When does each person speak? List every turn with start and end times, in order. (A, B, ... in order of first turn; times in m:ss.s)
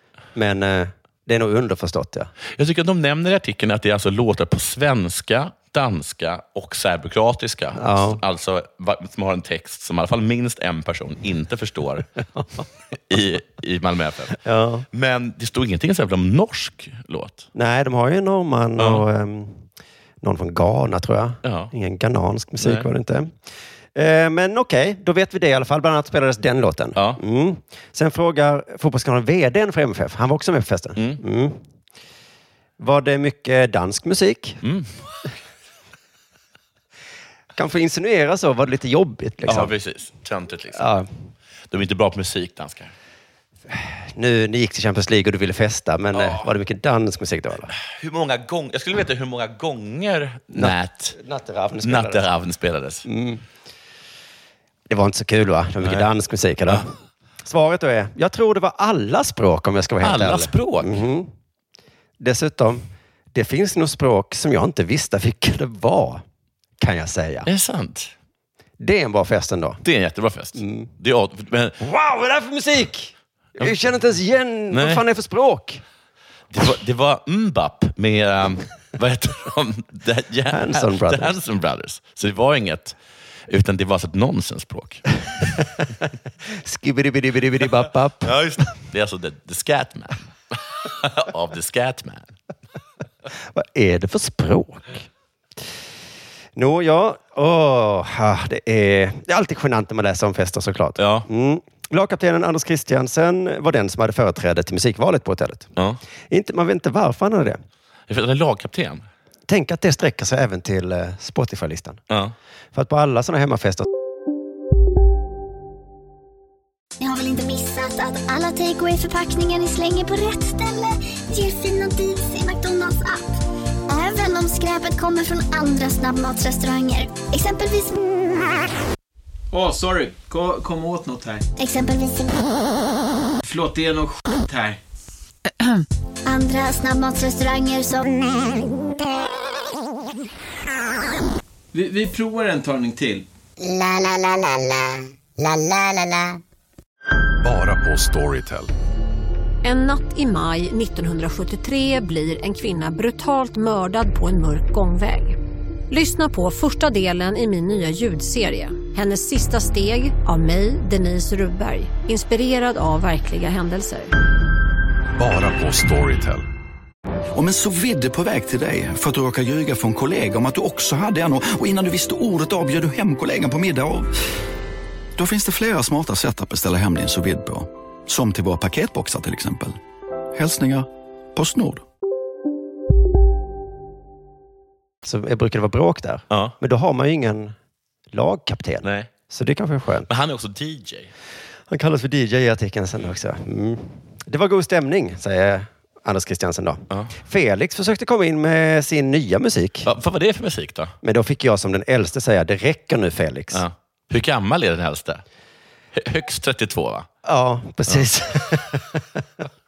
0:00.3-0:02.3 A
0:02.5-0:12.1 B
0:07.7-0:08.2 A
0:13.1-0:14.4 B
0:14.4-0:14.9 A
0:14.9-0:17.5 B
0:17.5-0:19.6 A
0:18.8-0:19.0 B
0:20.2-0:23.3 A
0:21.4-0:21.7 B
0:22.6-0:22.9 B
0:23.9-0:31.6 A
0:26.9-0:27.2 B
0:31.0-0:31.2 B
0:32.8-0:34.6 A
0:34.6-0:34.9 B
0:37.5-0:39.7 A
0:39.4-0:40.8 B
0:40.7-0:41.1 A
0:41.7-0:42.9 B
0:43.7-0:47.7 A
0:46.1-0:46.5 B
0:47.7-0:51.2 B
0:50.5-0:52.2 A
0:51.8-0:53.0 B
0:53.0-0:53.4 A
0:54.9-0:56.9 A
0:55.8-0:56.1 B
0:57.4-1:01.3 A
1:00.0-1:01.0 B
1:02.2-1:06.2 A
1:06.8-1:07.5 A
1:07.4-1:08.1 B
1:08.8-1:09.8 A
1:09.8-1:11.8 B
1:10.5-1:10.9 A
1:11.8-1:15.8 A
1:14.7-1:15.0 B
1:16.5-1:23.0 B
1:20.5-1:21.4 A
1:23.5-1:25.0 B
1:26.5-1:28.7 A
1:28.2-1:32.3 B
1:33.5-1:35.1 A
1:36.6-1:45.7 A
1:41.0-1:41.2 B
1:46.3-1:47.6 A
1:48.1-1:49.0 B
1:49.5-1:52.0 A
1:52.1-1:52.3 B
1:52.7-1:53.9 A
1:57.0-2:03.3 C
2:03.9-2:08.1 C
2:09.5-2:11.4 D
2:11.6-2:12.5 C
2:13.4-2:14.8 D
2:16.2-2:18.6 C
2:21.7-2:23.2 D
2:27.4-2:28.7 E
2:29.6-2:35.4 F
2:35.9-2:44.1 F
2:45.2-2:46.4 E
2:47.3-2:54.1 G
2:55.2-2:59.8 G
3:00.3-3:01.8 G
3:05.0-3:07.5 A
3:06.3-3:06.5 B
3:08.1-3:10.1 A
3:08.8-3:09.1 B
3:10.1-3:11.1 B
3:11.7-3:19.9 A
3:19.8-3:20.9 B
3:21.0-3:23.6 A
3:23.5-3:25.2 B
3:25.9-3:27.1 B
3:27.2-3:29.0 A